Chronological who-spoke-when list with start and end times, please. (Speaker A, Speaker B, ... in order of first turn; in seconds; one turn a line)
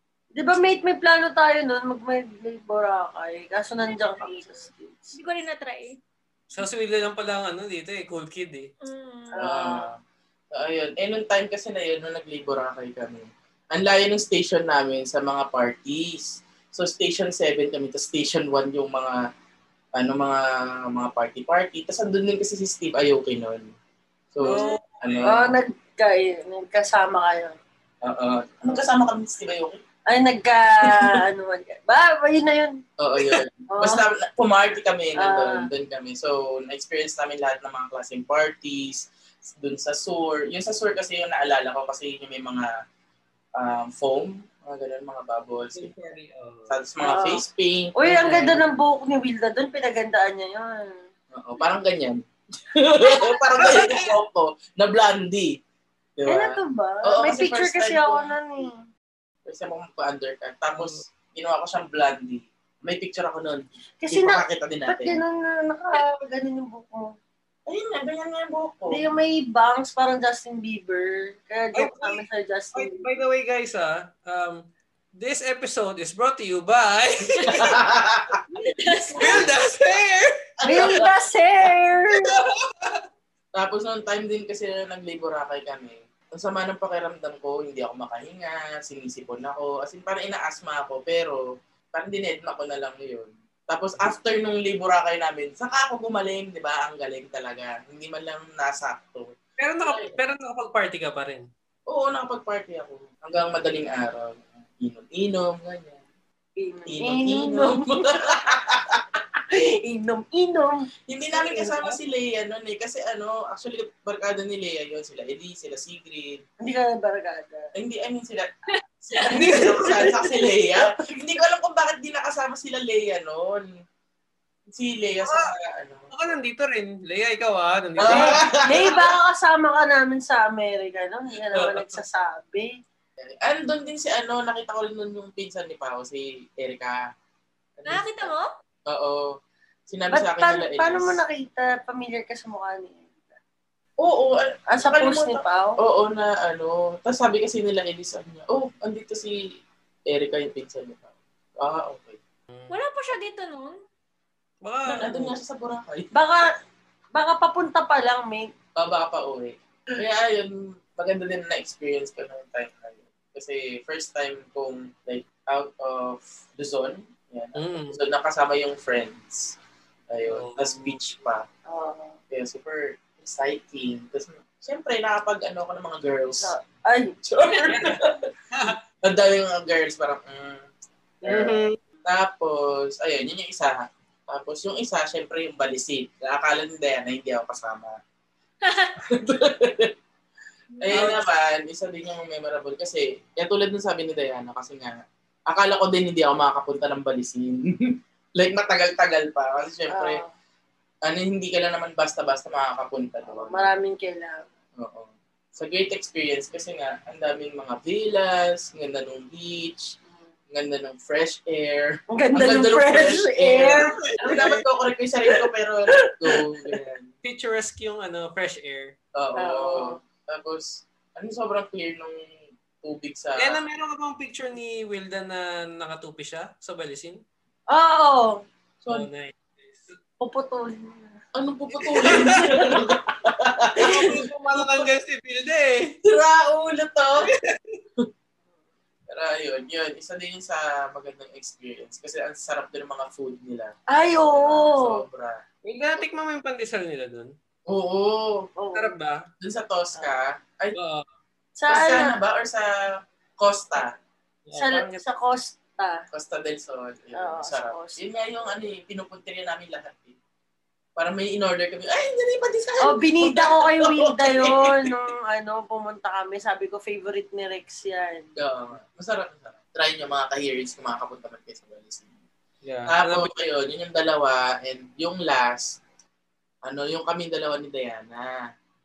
Speaker A: 0.4-5.2
Speaker B: 3.9-4.5
Speaker B: 5.1-6.0
Speaker C: 6.5-8.7
Speaker B: 8.8-9.4
Speaker A: 9.3-9.9
Speaker D: 9.4-10.0
Speaker D: 10.5-19.2
Speaker D: 20.0-23.7
Speaker D: 24.3-25.6
Speaker C: 24.4-25.3
Speaker A: 25.2-27.6
Speaker D: 28.0-29.8
Speaker A: 30.1-32.8
Speaker D: 30.9-31.1
Speaker D: 33.0-42.7
Speaker A: 33.7-34.0
Speaker A: 35.2-35.7
Speaker D: 43.6-45.9
Speaker C: 45.7-46.8
Speaker D: 46.7-48.6
Speaker A: 47.0-47.4
Speaker A: 48.0-51.0
Speaker D: 51.3-55.6
Speaker C: 53.6-54.1
Speaker D: 56.2-58.4
Speaker A: 56.3-58.9
Speaker D: 59.5-65.2
Speaker C: 60.8-61.0
Speaker A: 64.0-67.2
Speaker D: 67.7-69.0
Speaker A: 68.9-73.1
Speaker C: 71.8-74.6
Speaker C: 75.2-77.8
Speaker D: 77.5-78.4
Speaker A: 78.6-79.5
Speaker C: 79.2-81.0
Speaker D: 80.6-81.1
Speaker A: 80.6-82.4
Speaker C: 82.2-83.0
Speaker D: 83.6-91.4
Speaker D: 91.9-99.3
Speaker C: 99.6-101.5
Speaker D: 99.8-100.2
Speaker D: 101.9-106.0
Speaker A: 106.6-108.3
Speaker D: 106.9-109.0
Speaker A: 109.5-111.7
Speaker D: 111.1-116.4
Speaker A: 116.6-117.7
Speaker D: 117.8-118.5
Speaker D: 119.0-123.7
Speaker A: 119.2-120.9
Speaker C: 119.4-119.7
Speaker D: 124.7-126.1
Speaker C: 126.1-128.4
Speaker D: 128.0-129.1
Speaker A: 128.0-132.7
Speaker D: 133.2-137.0
Speaker D: 137.8-138.3
Speaker B: 137.9-138.5
Speaker D: 138.9-139.3
Speaker D: 139.9-141.2
Speaker A: 140.1-143.4
Speaker D: 144.0-149.4
Speaker A: 144.7-145.8
Speaker D: 150.1-152.2
Speaker B: 152.7-153.8
Speaker C: 154.6-155.4
Speaker D: 154.9-156.1
Speaker A: 156.1-156.5
Speaker A: 157.2-158.5
Speaker D: 158.8-169.6
Speaker C: 167.6-168.0
Speaker D: 170.1-171.4
Speaker C: 170.3-171.0
Speaker A: 171.7-172.2
Speaker D: 172.3-176.5
Speaker A: 176.4-177.2
Speaker D: 177.2-178.3
Speaker C: 177.6-178.0
Speaker C: 178.5-178.8
Speaker D: 179.0-180.6
Speaker D: 181.2-187.9
Speaker A: 181.3-181.5
Speaker C: 181.3-181.8
Speaker D: 189.1-189.9
Speaker B: 190.8-191.2
Speaker D: 190.8-200.2
Speaker C: 190.9-191.2
Speaker A: 199.9-200.3
Speaker D: 201.1-203.7
Speaker A: 203.2-204.5
Speaker D: 204.8-210.0
Speaker D: 210.5-217.1
Speaker A: 212.1-214.5
Speaker C: 213.7-214.6
Speaker A: 216.0-216.8
Speaker C: 217.2-218.9
Speaker D: 219.2-222.3
Speaker A: 219.4-220.0
Speaker D: 222.8-223.6
Speaker C: 223.4-227.2
Speaker A: 227.7-228.4
Speaker D: 228.8-229.1
Speaker C: 228.9-229.9
Speaker A: 230.2-231.2
Speaker D: 231.3-234.2
Speaker C: 231.8-232.5
Speaker A: 232.2-232.6
Speaker A: 233.8-234.2
Speaker C: 233.8-235.9
Speaker D: 236.1-237.3
Speaker C: 237.2-237.8
Speaker D: 239.1-245.4
Speaker A: 243.9-245.0
Speaker C: 245.7-247.3
Speaker D: 247.7-248.5
Speaker A: 248.6-248.9
Speaker C: 248.7-249.3
Speaker D: 249.4-250.8
Speaker C: 250.8-251.1
Speaker A: 251.6-252.2
Speaker D: 251.7-252.7
Speaker D: 253.4-253.9
Speaker C: 254.5-255.0
Speaker A: 254.6-256.0
Speaker D: 256.1-260.2
Speaker A: 257.1-258.0
Speaker D: 261.0-264.9
Speaker A: 262.8-268.3
Speaker D: 268.4-272.1
Speaker C: 272.6-273.3
Speaker D: 272.9-275.8
Speaker D: 276.6-278.4